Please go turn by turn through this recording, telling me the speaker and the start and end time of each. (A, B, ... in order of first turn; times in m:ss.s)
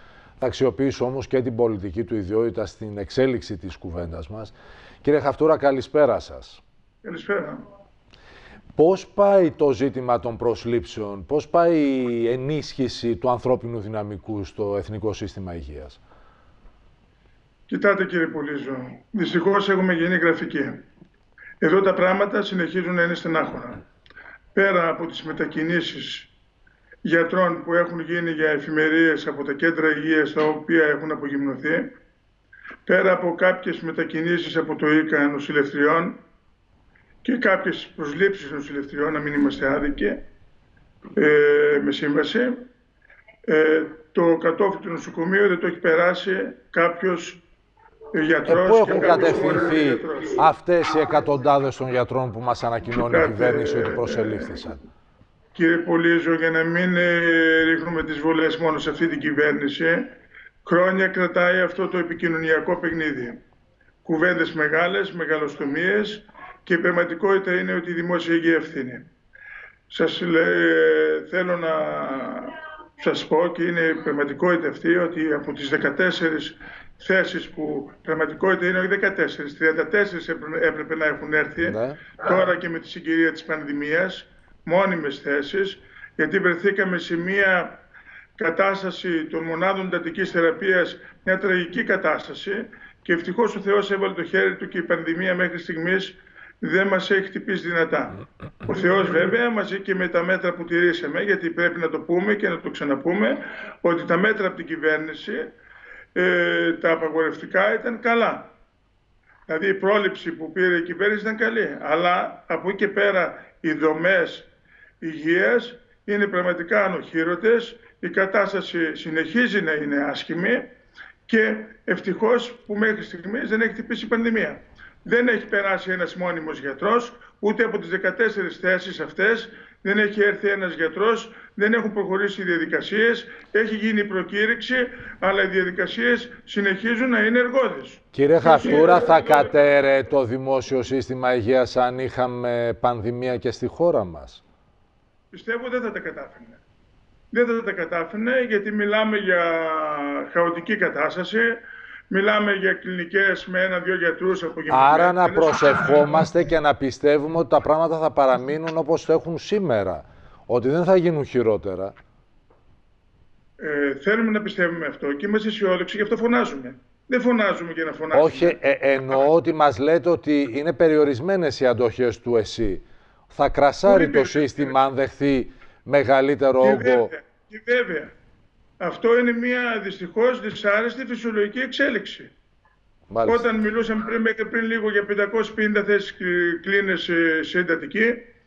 0:00.4-0:06.6 A
0:07.0-0:07.6 B
0:08.8-0:16.0 A
0:17.7-0:20.8 B
0:21.6-0:23.8 B
0:24.5-0:26.3 B
0:27.0-0:31.9 B
0:32.8-0:36.2 B
0:37.2-0:40.2 B
0:41.2-0:42.6 B
0:43.5-0:47.4 B
0:48.1-0:50.4 B
0:48.4-0:54.8 A
0:52.9-0:54.6 B
0:55.5-1:00.0 B
1:00.6-1:03.4 B
1:04.0-1:09.1 B
1:09.9-1:27.8 B
1:21.6-1:22.0 A
1:28.4-1:45.5 B
1:46.1-1:48.5 B
1:49.5-1:54.5 B
1:55.0-2:00.7 B
2:01.3-2:19.5 B
2:18.1-2:24.4 A
2:25.3-2:26.6 B
2:27.3-2:36.2 B
2:34.7-2:41.9 A
2:43.6-2:48.6 B
2:48.1-2:57.1 A
2:53.8-2:54.9 B
2:56.6-2:58.1 B
2:58.8-3:02.3 B
3:03.1-3:03.4 A
3:03.2-3:08.3 B